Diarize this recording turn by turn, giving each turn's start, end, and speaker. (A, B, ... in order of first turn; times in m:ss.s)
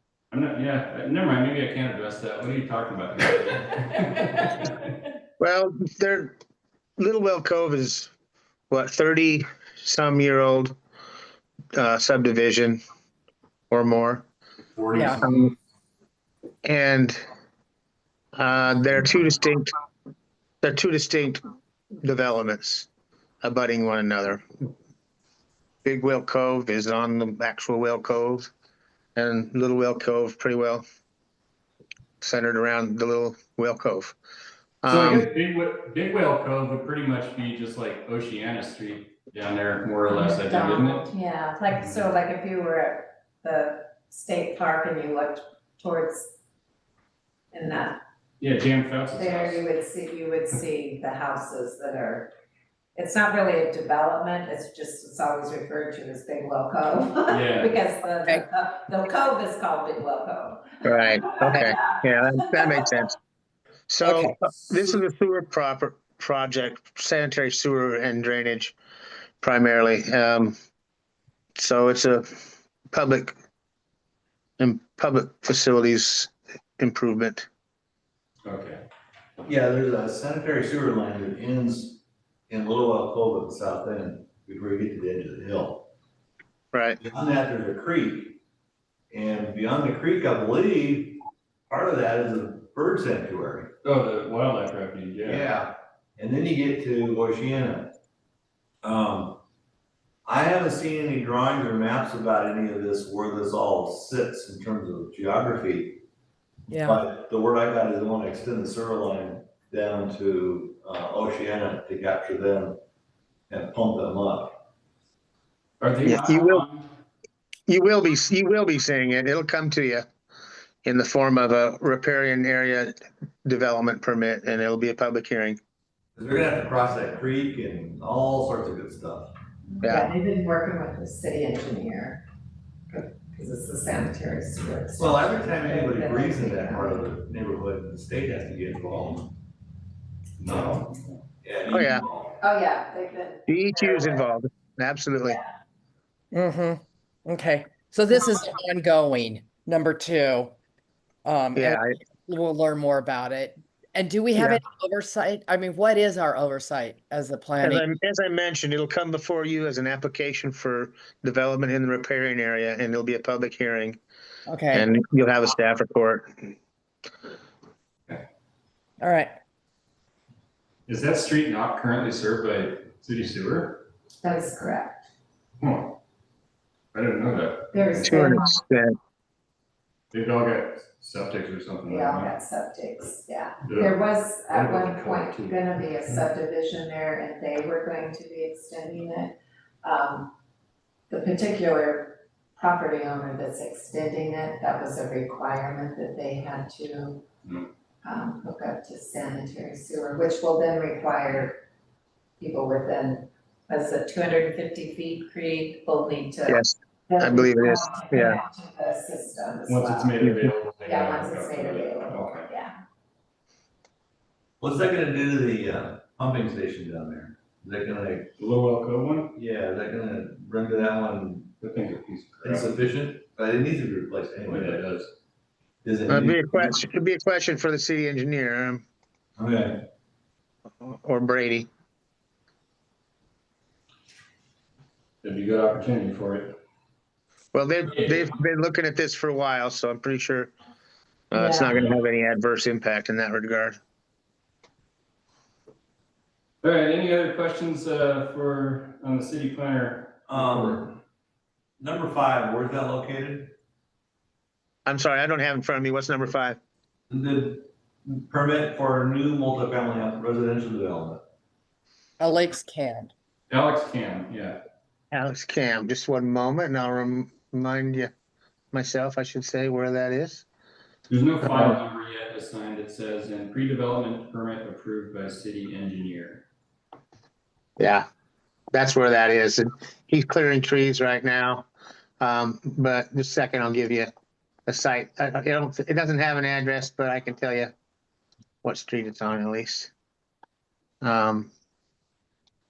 0:00.3-0:04.8 A
0:05.4-0:06.3 B
0:07.0-0:08.1 B
0:08.7-0:10.7 B
0:11.7-0:12.8 B
0:13.7-0:14.2 B
0:14.7-0:15.5 A
0:14.9-0:15.2 C
0:15.2-0:15.5 B
0:16.6-0:17.2 B
0:18.4-0:19.7 B
0:20.6-0:21.4 B
0:22.0-0:22.9 B
0:23.4-0:24.5 B
0:25.8-0:28.5 B
0:29.2-0:30.8 B
0:32.2-0:34.2 B
0:34.8-0:35.3 B
0:34.9-0:41.0 A
0:40.1-0:46.3 D
0:47.5-0:48.0 D
0:48.4-0:49.6 A
0:49.2-0:52.3 D
0:52.9-1:02.8 D
0:57.3-0:57.7 A
1:00.8-1:03.1 B
1:03.9-1:08.7 B
1:04.0-1:04.4 C
1:09.4-1:10.5 B
1:11.6-1:12.3 B
1:12.9-1:13.3 B
1:14.6-1:17.5 B
1:18.4-1:18.8 A
1:19.4-1:25.9 E
1:26.7-1:27.0 B
1:27.0-1:28.4 E
1:29.1-1:31.2 E
1:31.7-1:33.7 E
1:33.8-1:35.5 A
1:35.2-1:37.9 E
1:38.8-1:39.4 E
1:40.2-1:46.0 E
1:46.7-1:47.0 C
1:46.8-1:52.8 E
1:53.5-1:54.5 E
1:55.8-1:56.9 A
1:56.0-1:56.6 B
1:57.7-2:00.1 B
2:00.8-2:05.6 B
2:06.2-2:09.3 E
2:09.7-2:12.2 D
2:09.8-2:10.1 B
2:12.9-2:17.1 D
2:15.0-2:19.3 E
2:20.4-2:21.2 A
2:21.4-2:22.4 E
2:21.7-2:22.0 B
2:22.4-2:24.2 D
2:23.5-2:25.4 B
2:26.3-2:30.5 C
2:31.2-2:37.8 C
2:31.6-2:31.9 B
2:34.3-2:34.6 B
2:37.6-2:44.0 B
2:44.5-2:44.8 C
2:44.7-2:46.3 B
2:49.0-2:49.3 C
2:50.9-2:53.8 A
2:54.2-2:55.0 D
2:55.6-2:55.9 A
2:56.9-2:58.3 A
2:57.7-2:58.6 D
2:58.0-2:59.0 B
3:00.1-3:02.3 A
3:01.8-3:10.3 D
3:03.6-3:04.0 A
3:04.5-3:05.6 A
3:11.1-3:17.2 D
3:18.0-3:21.6 D
3:22.4-3:30.2 D
3:26.5-3:28.4 B
3:29.7-3:32.5 A
3:30.2-3:30.5 B
3:30.8-3:32.7 D
3:34.6-3:38.3 E
3:38.4-3:39.3 A
3:39.3-3:41.5 E
3:41.6-3:42.7 A
3:42.4-3:44.8 E
3:44.5-3:45.1 A
3:45.8-3:46.8 E
3:46.1-3:48.8 B
3:49.4-3:49.8 E
3:50.8-3:51.7 B
3:55.2-3:56.5 A
3:57.5-4:00.5 B
4:01.3-4:03.8 B
4:01.3-4:01.8 D
4:06.6-4:10.9 A
4:10.3-4:10.9 E
4:11.8-4:13.5 E
4:14.8-4:16.6 B
4:17.1-4:21.2 E
4:22.2-4:23.1 C
4:23.5-4:24.6 A
4:25.1-4:28.1 B
4:28.7-4:30.4 B
4:31.1-4:36.4 A
4:31.4-4:31.8 B
4:37.8-4:38.0 B
4:38.7-4:41.7 B
4:42.2-4:44.1 B
4:44.7-4:47.7 B
4:48.6-4:49.9 B
4:51.0-4:51.5 B